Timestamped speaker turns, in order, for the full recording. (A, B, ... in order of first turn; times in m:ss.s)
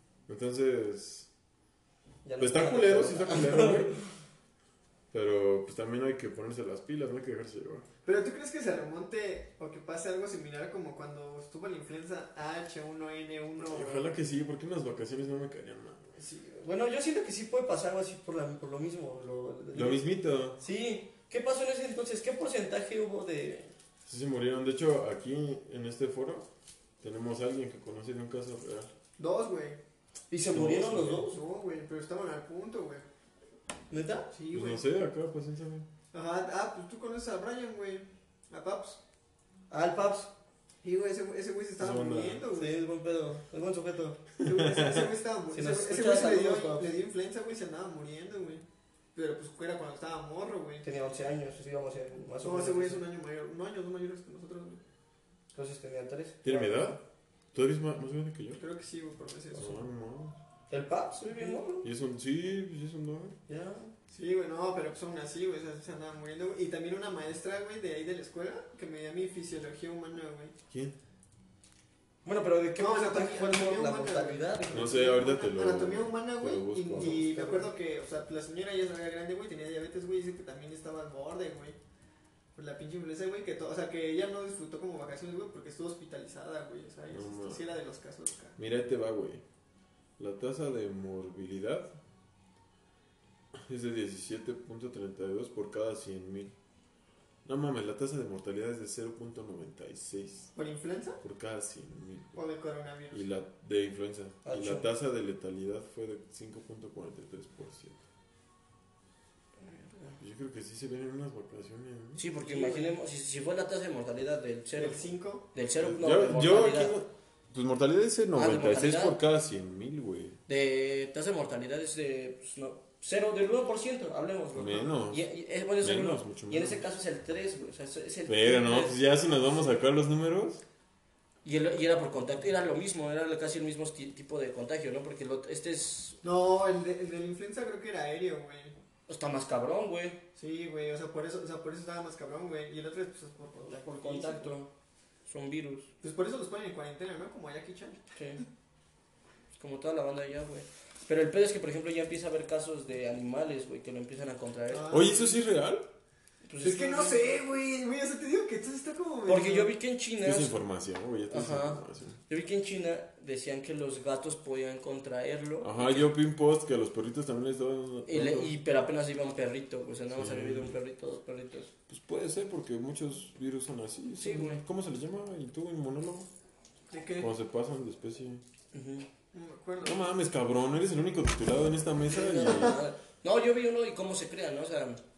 0:00.3-0:01.3 A
0:02.2-0:04.0 B
0:02.4-0:04.0 A
0:05.1-0:07.8 A
0:08.0-0:14.2 C
0:13.6-0:16.0 A
0:16.2-0:16.6 C
0:16.5-0:20.0 B
0:19.7-0:20.6 A
0:20.6-0:23.7 B
0:24.0-0:26.5 A
0:27.0-0:28.9 A
0:29.2-0:29.8 C
0:30.3-0:31.4 B
0:30.5-0:31.2 A
0:31.3-0:33.0 C
0:33.9-0:34.3 B
0:34.3-0:34.8 C
0:34.5-0:35.8 A
0:36.1-0:39.0 C
0:39.7-0:40.3 B
0:40.8-0:42.8 C
0:41.8-0:42.4 A
0:42.5-0:44.2 B
0:44.4-0:50.8 C
0:44.4-0:45.1 A
0:45.5-0:46.8 B
0:50.8-0:53.0 B
0:52.4-0:54.8 C
0:55.5-0:57.0 B
0:56.4-0:57.0 A
0:57.5-0:58.6 A
0:58.6-0:59.8 C
0:59.5-1:00.4 A
1:00.7-1:01.9 B
1:01.6-1:03.4 A
1:03.5-1:03.9 B
1:04.1-1:10.5 C
1:12.2-1:15.0 B
1:12.8-1:21.8 C
1:14.7-1:17.2 A
1:17.0-1:17.7 B
1:22.5-1:28.6 C
1:27.1-1:27.6 A
1:28.6-1:29.4 A
1:30.2-1:31.9 A
1:33.5-1:36.5 A
1:37.4-1:40.5 A
1:40.5-1:41.2 C
1:41.2-1:42.4 A
1:42.3-1:43.3 C
1:43.1-1:48.0 A
1:44.4-1:44.8 B
1:49.6-1:50.2 B
1:50.2-1:52.2 A
1:52.2-1:56.9 B
1:52.4-1:53.0 C
1:54.8-1:55.4 C
1:55.8-2:00.4 A
1:58.3-1:59.2 B
2:00.5-2:09.0 B
2:04.5-2:05.2 A
2:05.8-2:06.8 A
2:08.3-2:10.6 A
2:11.4-2:16.2 B
2:16.2-2:18.7 C
2:19.1-2:20.2 B
2:20.4-2:24.5 C
2:23.6-2:24.7 B
2:25.3-2:25.9 B
2:26.0-2:28.0 C
2:28.1-2:28.4 B
2:29.6-2:35.0 B
2:34.7-2:35.3 C
2:34.9-2:35.8 A
2:36.5-2:37.2 B
2:36.6-2:39.7 C
2:39.3-2:40.6 B
2:40.2-2:42.2 A
2:41.3-2:46.0 B
2:45.6-2:48.6 A
2:48.1-2:51.7 B
2:50.1-2:50.7 A
2:51.9-2:56.3 A
2:54.2-2:54.6 B
2:56.9-2:57.3 C
2:57.2-2:58.4 A
2:58.7-2:59.1 B
2:59.3-3:00.1 C
2:59.8-3:02.8 A
3:02.1-3:05.0 B